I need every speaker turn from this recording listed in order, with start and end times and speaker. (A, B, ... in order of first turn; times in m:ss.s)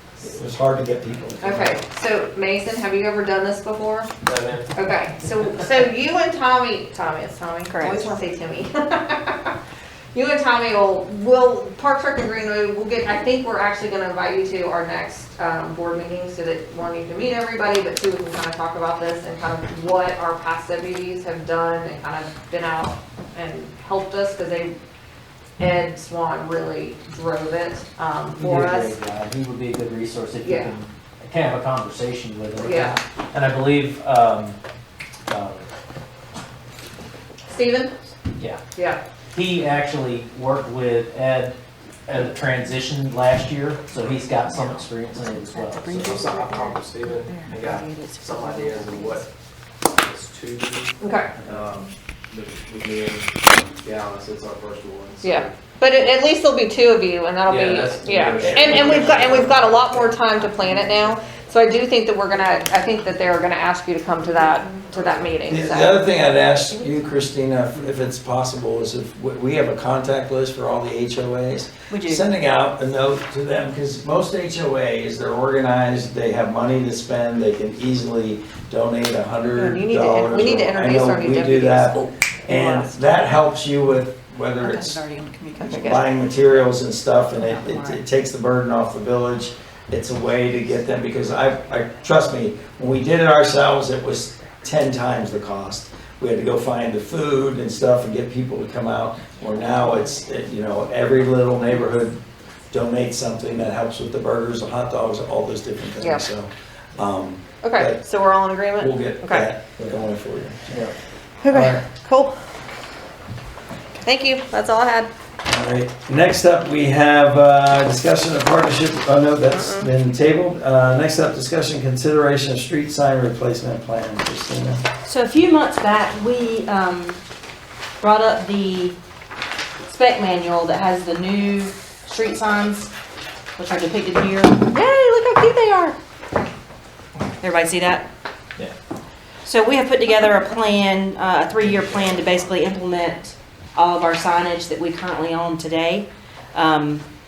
0:00.2-0:01.8 A
0:01.4-0:04.1 B
0:04.2-0:04.6 C
0:04.3-0:04.6 D
0:04.7-0:09.6 B
0:07.7-0:08.2 E
0:10.1-0:24.7 B
0:25.6-0:29.0 B
0:28.3-0:34.6 C
0:30.4-0:30.8 B
0:32.6-0:33.0 B
0:35.3-0:35.6 C
0:37.5-0:37.9 B
0:38.3-0:38.6 C
0:38.7-0:39.0 B
0:39.3-0:46.3 C
0:44.4-0:48.4 F
0:45.9-0:49.3 D
0:47.4-0:47.8 C
0:47.7-0:49.1 E
0:49.9-0:56.1 D
0:51.0-0:51.3 B
0:55.2-1:06.0 B
0:57.5-0:59.3 C
0:57.6-1:00.2 D
0:58.4-0:59.4 A
1:00.3-1:00.9 F
1:05.4-1:25.0 A
1:11.9-1:12.2 E
1:19.5-1:22.9 B
1:24.7-1:26.0 F
1:25.7-1:26.0 B
1:25.8-1:42.2 A
1:42.7-1:48.0 A
1:46.0-1:46.2 B
1:47.6-1:49.5 B
1:48.8-1:50.8 A
1:51.4-1:52.3 B
1:51.5-1:51.8 A
1:54.0-1:55.1 B
1:55.4-2:04.8 A
1:59.5-1:59.9 B
2:05.0-2:07.2 E
2:08.0-2:08.9 E
2:09.8-2:12.9 E
2:13.6-2:14.7 E
2:14.7-2:16.0 B
2:17.4-2:18.1 E
2:19.4-2:27.0 E